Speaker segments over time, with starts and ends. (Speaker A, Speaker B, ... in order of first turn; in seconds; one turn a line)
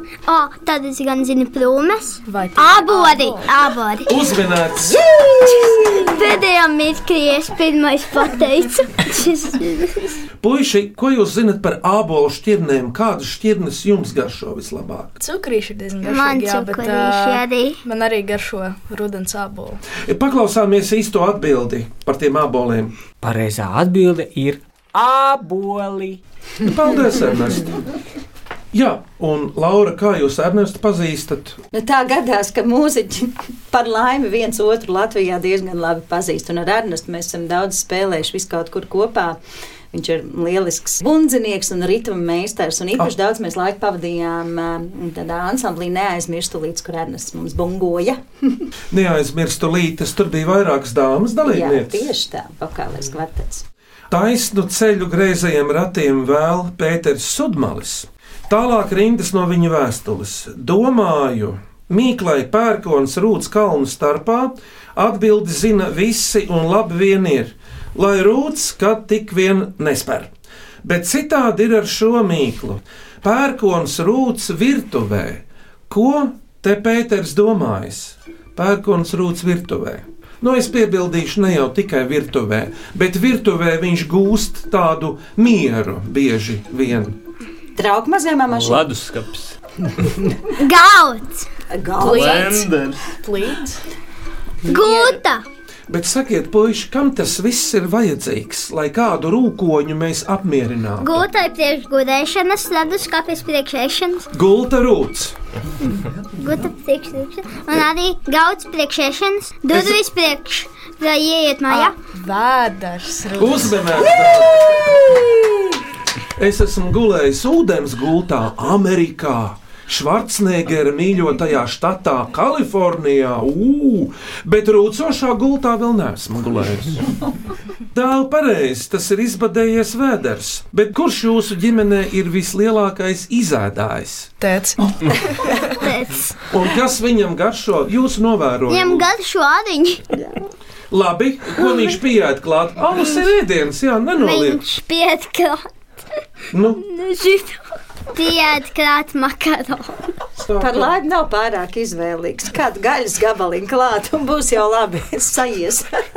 Speaker A: 0.3-4.1
Speaker B: 2.3-3.6
Speaker C: 4.1-5.0
Speaker D: 4.9-6.1
Speaker A: 5.7-10.2
Speaker C: 10.4-15.2
Speaker B: 15.2-19.8
Speaker A: 16.1-17.8
Speaker C: 20.0-22.9
Speaker E: 23.2-26.2
Speaker C: 26.6-27.8
Speaker C: 28.7-31.6
Speaker D: 31.7-39.4
Speaker D: 39.9-48.6
Speaker C: 48.9-52.1
Speaker D: 51.5-53.6
Speaker C: 54.1-70.3
Speaker C: 70.8-87.2
Speaker D: 87.8-88.9
Speaker F: 88.5-89.5
Speaker D: 90.0-90.3
Speaker A: 90.5-91.5
Speaker D: 91.7-92.6
Speaker F: 92.0-93.1
Speaker B: 92.0-93.8
Speaker D: 94.7-95.0
Speaker A: 94.7-95.4
Speaker C: 95.9-101.2
Speaker A: 101.0-104.3
Speaker C: 104.3-105.3
Speaker A: 105.9-112.0
Speaker C: 109.7-110.0
Speaker B: 111.7-114.1
Speaker C: 113.4-114.9
Speaker C: 116.4-127.1
Speaker C: 127.9-134.3
Speaker B: 134.4-135.7
Speaker A: 135.8-136.4
Speaker C: 136.5-139.1
Speaker A: 138.7-140.2
Speaker C: 140.9-144.6
Speaker A: 144.2-145.6
Speaker C: 146.5-146.8
Speaker A: 146.8-147.6
Speaker A: 148.1-150.1
Speaker C: 150.4-150.9
Speaker D: 150.6-155.9